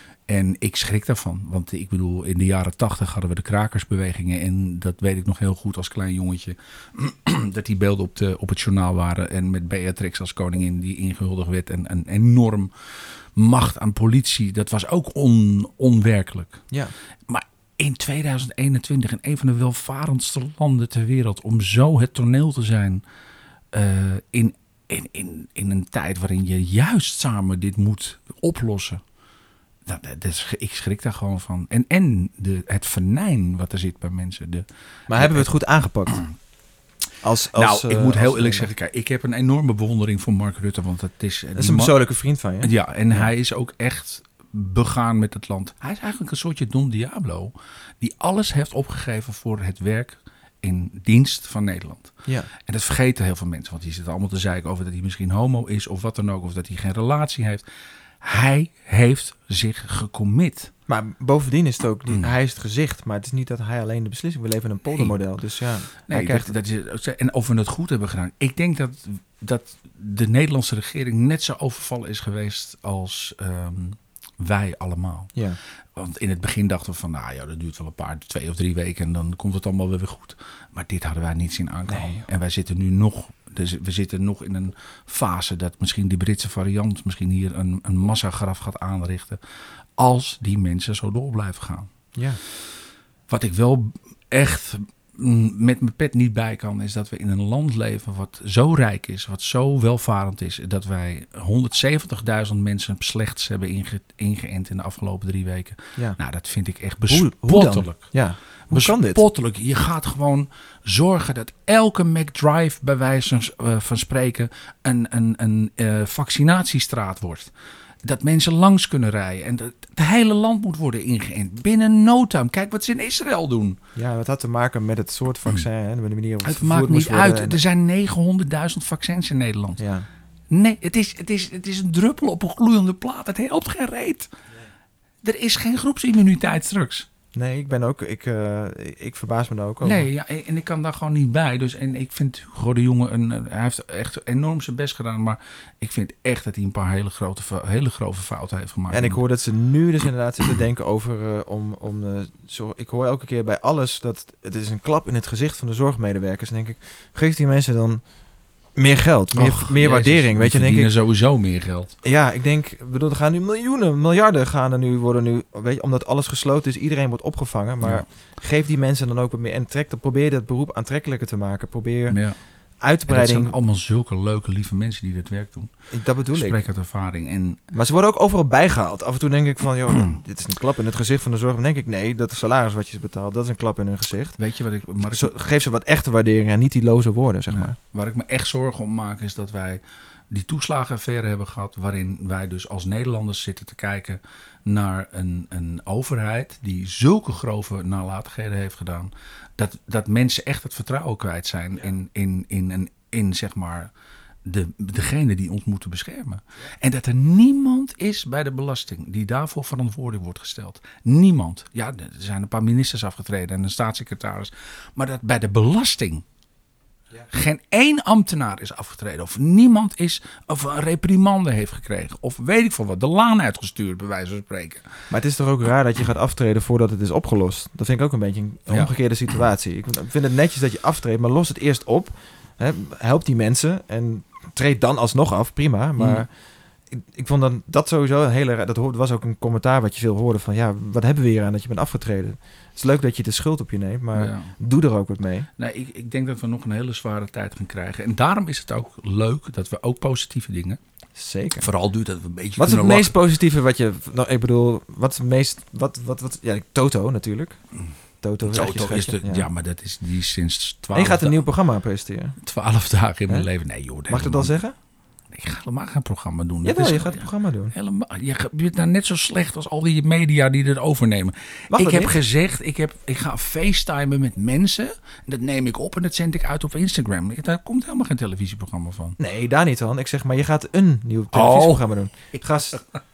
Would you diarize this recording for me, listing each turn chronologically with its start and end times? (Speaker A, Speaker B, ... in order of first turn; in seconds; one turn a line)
Speaker A: 0.3-16.6
Speaker A: 17.3-23.0
Speaker A: 23.7-29.0
Speaker A: 29.9-35.5
Speaker B: 35.1-36.2
Speaker B: 37.2-38.7
Speaker A: 37.5-41.9
Speaker B: 41.5-43.3
Speaker A: 42.6-57.6
Speaker A: 58.2-60.7
Speaker B: 60.9-66.5
Speaker A: 66.1-75.3
Speaker A: 75.9-89.4
Speaker B: 81.9-82.2
Speaker A: 90.0-91.9
Speaker A: 93.3-108.1
Speaker B: 107.1-109.2
Speaker A: 108.7-117.5
Speaker A: 118.0-123.8
Speaker B: 124.0-127.6
Speaker A: 126.4-129.8
Speaker B: 129.8-130.1
Speaker A: 130.5-134.3
Speaker A: 135.2-137.1
Speaker B: 137.3-140.1
Speaker A: 139.8-149.2
Speaker B: 148.9-158.0
Speaker B: 158.8-160.9
Speaker A: 159.3-161.9
Speaker B: 162.0-172.2
Speaker A: 172.1-172.4
Speaker B: 172.8-173.5
Speaker A: 173.1-175.7
Speaker B: 175.9-176.6
Speaker A: 176.3-177.6
Speaker B: 177.7-184.4
Speaker A: 179.9-180.2
Speaker A: 184.4-185.3
Speaker B: 185.0-187.8
Speaker A: 187.5-203.9
Speaker A: 204.4-216.2
Speaker A: 217.3-224.9
Speaker B: 225.1-236.3
Speaker A: 236.0-236.2
Speaker B: 236.9-245.5
Speaker A: 244.1-244.5
Speaker A: 245.6-250.8
Speaker B: 251.2-251.7
Speaker A: 251.6-253.1
Speaker B: 252.6-257.6
Speaker B: 258.2-259.5
Speaker A: 258.4-261.4
Speaker B: 260.9-262.4
Speaker A: 262.4-264.5
Speaker B: 264.1-264.7
Speaker A: 265.3-279.2
Speaker B: 266.6-267.7
Speaker B: 271.7-272.1
Speaker B: 279.2-282.8
Speaker A: 281.3-281.8